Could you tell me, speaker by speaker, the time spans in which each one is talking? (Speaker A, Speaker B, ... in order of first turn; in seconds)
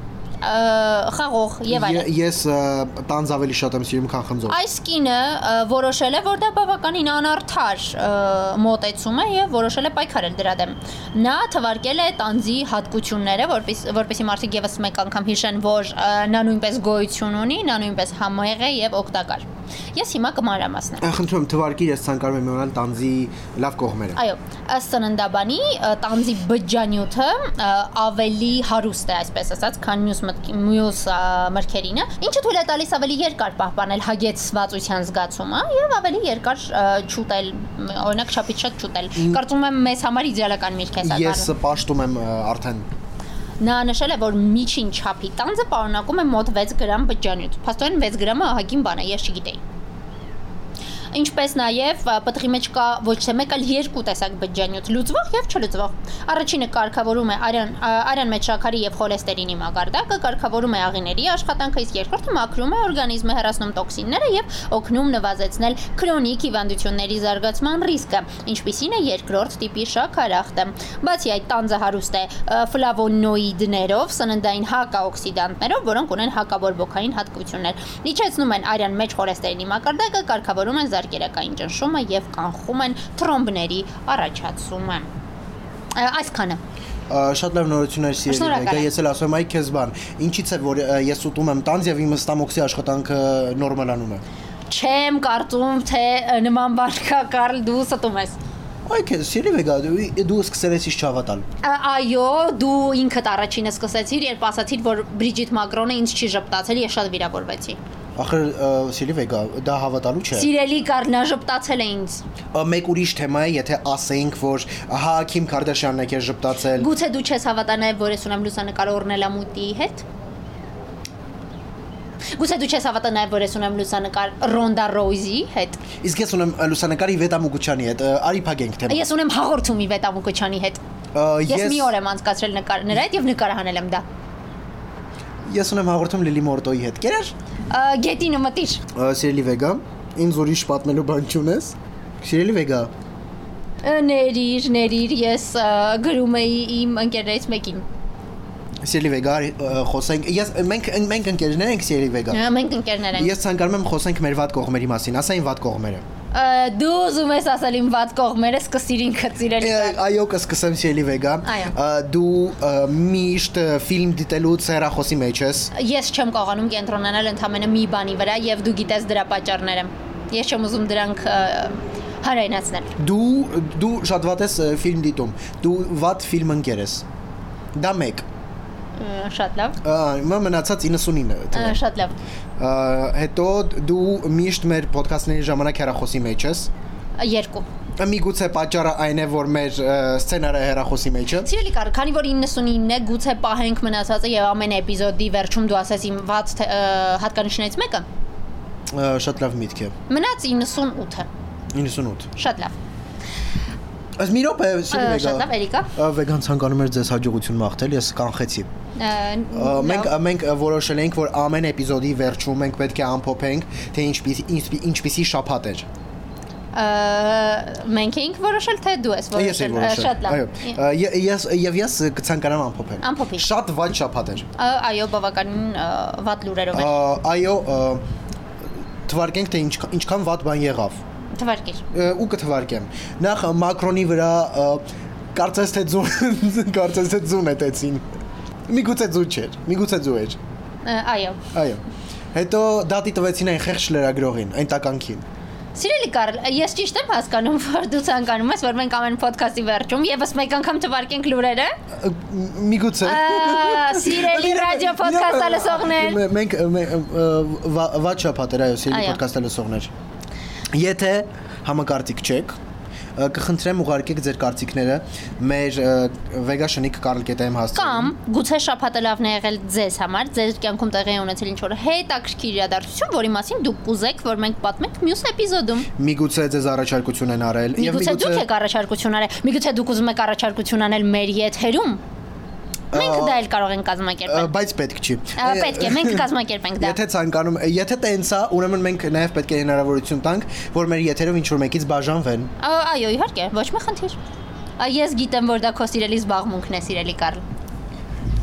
Speaker A: 0.4-2.1, 4.5-21.0, 24.2-41.5, 43.6-49.6, 51.1-85.1, 86.0-86.6, 88.3-88.9, 94.7-98.4, 101.6-107.8, 110.3-112.2, 116.8-120.0, 122.3-125.8, 128.9-130.8, 131.5-134.1, 137.7-138.8, 143.8-147.8, 152.3-153.3, 156.3-160.0, 161.4-161.7, 165.7-172.9, 179.0-179.8, 181.5-182.2, 187.2-187.7, 191.4-198.1, 200.1-201.3, 202.4-202.8, 204.9-205.9, 209.0-210.2, 216.7-220.8, 223.0-223.5, 224.6-226.9, 231.3-231.8, 240.8-241.4, 245.8-251.8, 253.0-256.2, 258.9-259.2, 267.8-275.9, 277.8-282.0, 282.9-284.5, 285.4-287.0, 292.6-294.2, 294.8-297.4
Speaker B: 1.7-4.6, 21.0-24.2, 39.2-39.4, 41.0-42.9, 87.1-94.2, 98.9-101.5, 108.2-110.5, 112.5-116.9, 126.0-129.1, 131.1-131.9, 135.5-137.3, 138.9-142.9, 148.8-152.4, 153.2-156.0, 159.6-165.7, 173.0-177.1, 177.8-178.2, 179.8-181.8, 182.6-186.7, 188.0-191.5, 198.9-199.9, 201.7-202.3, 204.2-208.7, 209.5-215.9, 219.3-224.5, 226.7-228.0, 229.1-231.0, 231.9-234.8, 235.3-238.0, 238.7-240.4, 241.5-241.8, 242.3-245.2, 251.9-259.9, 260.7-262.6, 263.2-268.1, 275.9-278.5, 282.9-283.4, 284.3-286.3, 286.8-292.5